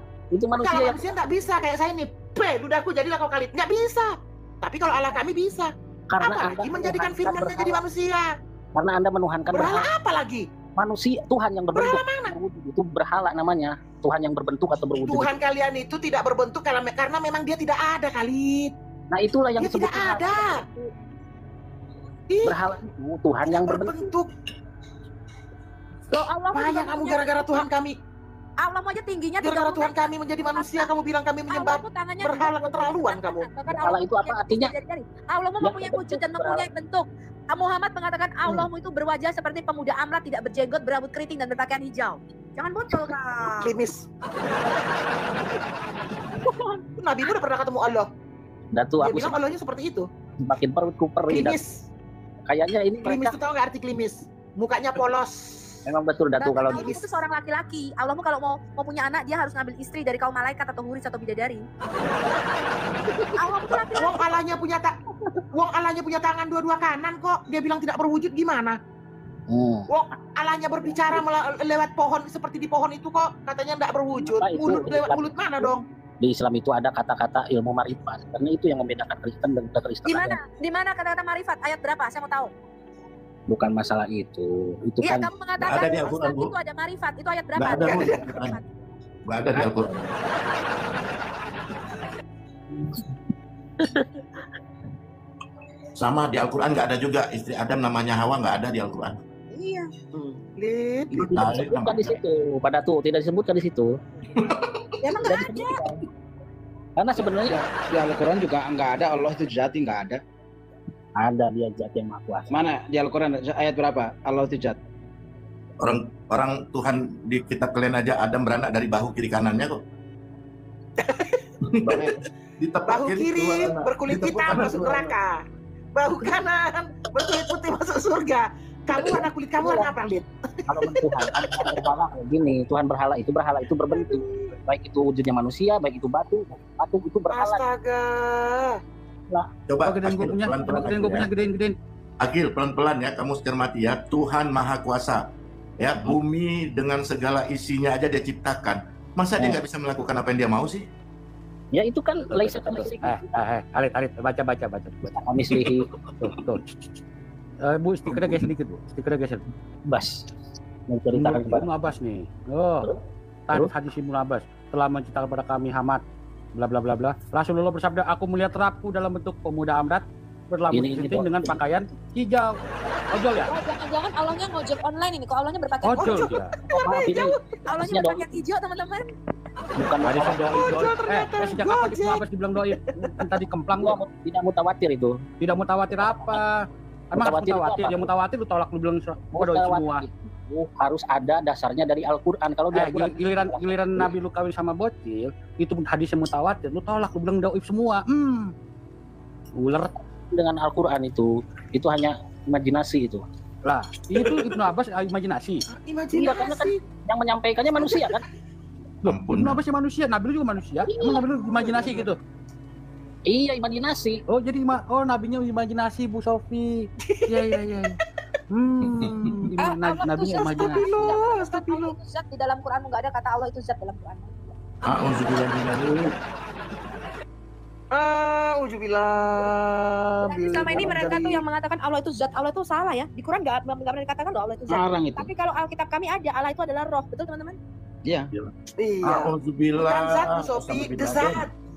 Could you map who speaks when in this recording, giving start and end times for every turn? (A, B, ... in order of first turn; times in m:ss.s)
0:00.3-0:01.0 A
0:00.6-0:08.3 B
0:06.1-0:07.8 A
0:08.7-0:09.9 A
0:09.5-0:10.4 B
0:10.8-0:15.3 A
0:11.7-0:12.4 B
0:15.0-0:18.7 B
0:19.1-0:20.9 A
0:19.6-0:20.6 B
0:22.3-0:22.6 B
0:22.4-0:24.1 A
0:23.4-0:24.3 B
0:26.1-0:27.6 C
0:26.5-0:28.0 B
0:28.6-0:30.9 C
0:29.4-0:33.5 B
0:31.5-0:43.7 C
0:33.7-0:34.7 A
0:35.6-0:36.6 A
0:43.6-0:44.0 B
0:46.9-0:48.1 B
0:48.7-0:49.4 A
0:49.0-0:50.1 B
0:50.4-0:51.6 A
0:51.3-0:51.8 B
0:52.5-0:53.4 A
0:53.0-0:55.8 B
0:55.8-0:56.9 A
0:56.4-1:01.6 C
0:56.7-0:57.0 B
1:03.4-1:04.1 C
1:03.9-1:05.0 B
1:05.5-1:08.8 B
1:09.5-1:09.9 A
1:09.9-1:15.8 B
1:14.2-1:20.4 A
1:20.0-1:22.5 C
1:23.5-1:25.3 A
1:25.0-1:28.6 C
1:25.6-1:26.5 D
1:27.5-1:28.6 D
1:27.8-1:28.2 B
1:29.3-1:30.1 D
1:33.8-1:34.4 A
1:36.0-1:39.1 D
1:39.5-1:39.9 C
1:40.1-1:41.4 B
1:41.1-1:44.0 A
1:41.1-1:42.2 D
1:44.4-1:44.7 D
1:45.0-1:46.0 C
1:45.2-1:46.0 A
1:47.0-1:47.6 A
1:47.2-1:50.2 E
1:51.2-1:52.6 A
1:52.5-1:54.8 E
1:55.8-1:59.8 D
2:01.0-2:01.4 B
2:01.6-2:05.2 D
2:02.9-2:05.4 B
2:05.9-2:11.8 B
2:08.9-2:09.9 A
2:10.7-2:17.6 A
2:13.9-2:14.5 B
2:17.3-2:18.8 B
2:19.7-2:21.3 D
2:19.8-2:21.8 F
2:22.2-2:25.2 D
2:25.8-2:30.9 D
2:31.7-2:33.3 A
2:32.3-2:36.6 F
2:35.1-2:35.9 A
2:37.6-2:39.4 F
2:39.8-2:40.2 A
2:40.9-2:41.7 A
2:41.1-2:42.9 F
2:42.8-2:43.7 A
2:43.5-2:46.0 F
2:46.6-2:52.6 F
2:50.7-2:51.6 A
2:53.1-2:53.5 F
2:53.4-2:56.3 C
2:55.8-2:56.6 F
2:56.0-2:57.6 B
2:56.8-2:58.3 A
2:57.6-2:59.1 C
2:59.8-3:00.5 A
3:00.0-3:04.0 F
3:00.4-3:02.8 B
3:03.8-3:05.2 A
3:05.4-3:10.0 F
3:05.9-3:06.4 A
3:07.1-3:08.1 A
3:09.3-3:14.1 A
3:12.7-3:18.5 F
3:19.6-3:20.0 F
3:20.3-3:23.2 A
3:23.6-3:25.6 F
3:25.7-3:26.8 B
3:26.1-3:28.2 A
3:27.8-3:28.2 B
3:29.0-3:32.2 F
3:29.0-3:29.6 D
3:30.8-3:31.2 A
3:33.3-3:34.2 A
3:34.3-3:38.0 F
3:37.0-3:37.6 B
3:38.5-3:40.9 F
3:38.9-3:39.5 B
3:39.6-3:44.5 C
3:40.4-3:41.9 B
3:44.8-3:46.1 D
3:47.9-3:51.4 B
3:50.2-3:57.6 C
3:54.7-3:55.3 E
3:58.8-4:01.5 B
3:59.0-4:01.5 D